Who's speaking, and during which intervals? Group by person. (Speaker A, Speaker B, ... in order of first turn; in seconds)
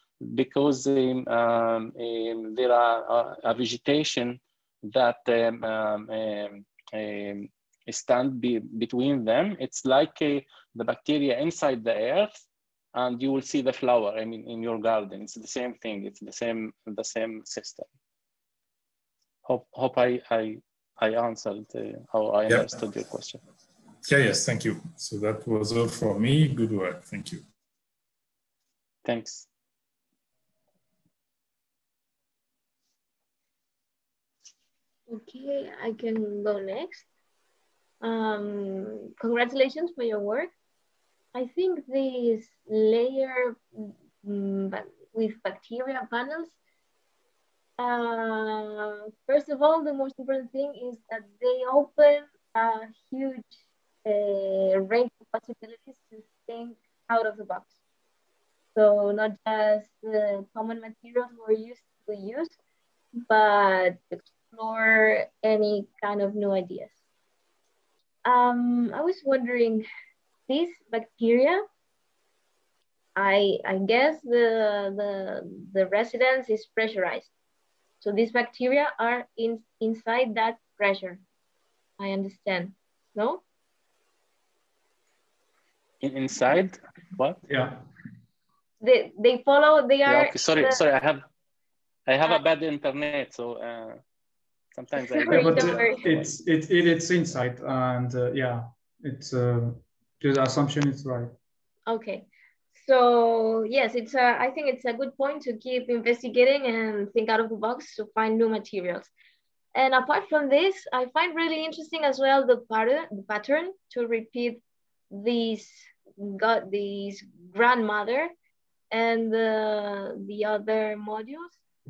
Speaker A: 0.2-12.3, 12.9-17.9, 19.4-23.4, 29.1-29.5, 86.0-87.4, 90.1-91.2, 92.1-94.0, 94.7-96.4
Speaker B: 22.5-22.8, 24.0-27.4
Speaker C: 35.1-37.1, 38.0-40.5, 41.4-46.5, 47.8-53.5, 54.0-57.7, 58.8-62.5, 63.2-67.0, 68.2-69.9, 70.5-71.6, 73.2-77.3, 78.0-81.2, 82.0-83.4, 88.8-90.8, 95.1-96.0, 101.9-109.1, 109.7-118.3, 118.9-121.6
Speaker D: 87.5-87.8, 95.2-101.3